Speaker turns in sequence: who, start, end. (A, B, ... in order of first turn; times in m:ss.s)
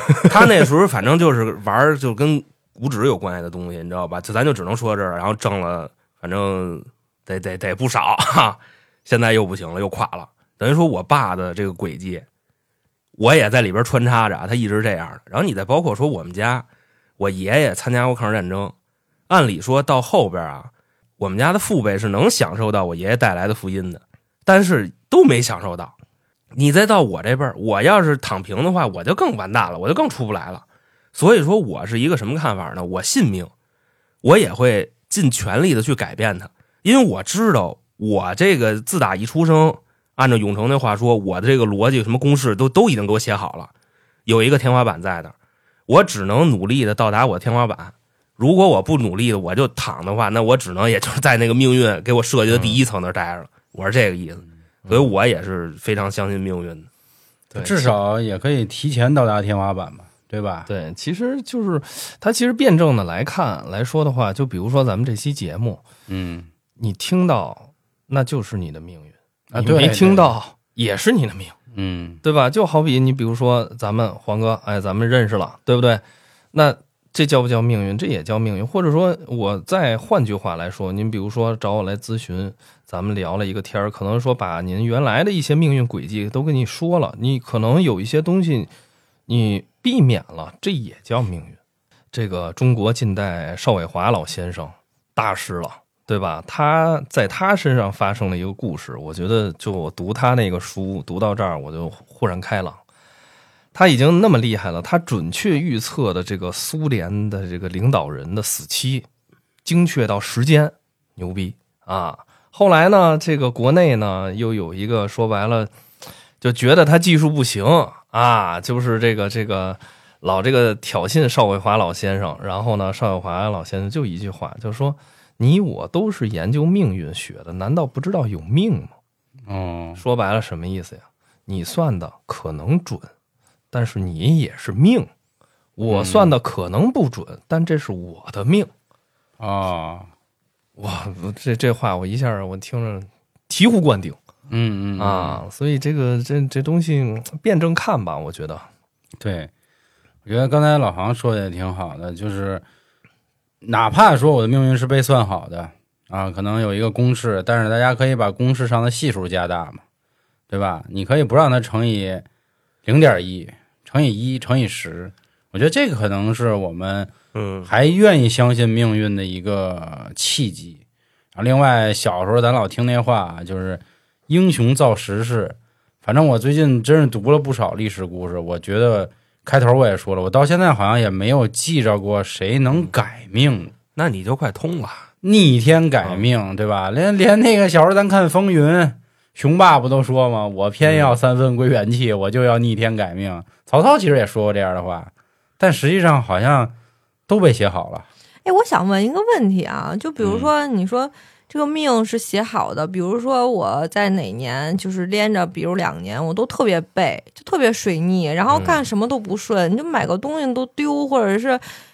0:00.2-0:12.2 A
0:13.2-0:16.6 A
0:17.2-0:18.7 A
0:19.3-0:25.9 A
0:26.5-0:30.6 A
0:31.1-0:33.5 A
0:34.2-0:43.7 A
0:44.2-0:45.3 A
0:45.9-0:56.9 A
0:52.5-0:52.8 B
0:54.8-0:55.1 B
0:57.5-0:57.9 B
0:57.5-1:00.7 C
1:00.7-1:05.8 B
1:06.1-1:06.5 C
1:06.8-1:11.6 B
1:09.5-1:10.3 C
1:11.7-1:12.2 C
1:12.2-1:28.7 B
1:29.3-1:31.6 B
1:32.1-1:42.8 B
1:43.7-1:49.0 B
1:49.6-1:55.7 B
1:56.4-2:08.9 B
2:09.5-2:10.0 C
2:10.0-2:13.1 B
2:13.7-2:15.1 B
2:15.8-2:18.7 B
2:15.9-2:16.3 C
2:19.4-2:20.1 C
2:20.8-2:24.2 B
2:24.5-2:25.4 C
2:25.0-2:28.6 B
2:29.2-2:29.5 C
2:30.2-2:32.6 C
2:33.6-2:39.8 C
2:40.5-2:42.2 C
2:42.8-2:47.1 C
2:47.3-2:47.7 A
2:47.6-2:50.8 C
2:51.3-3:03.7 C
3:04.0-3:05.1 A
3:05.2-3:16.7 C
3:17.3-3:18.0 C
3:18.4-3:31.6 D
3:20.2-3:20.5 C
3:28.5-3:28.8 B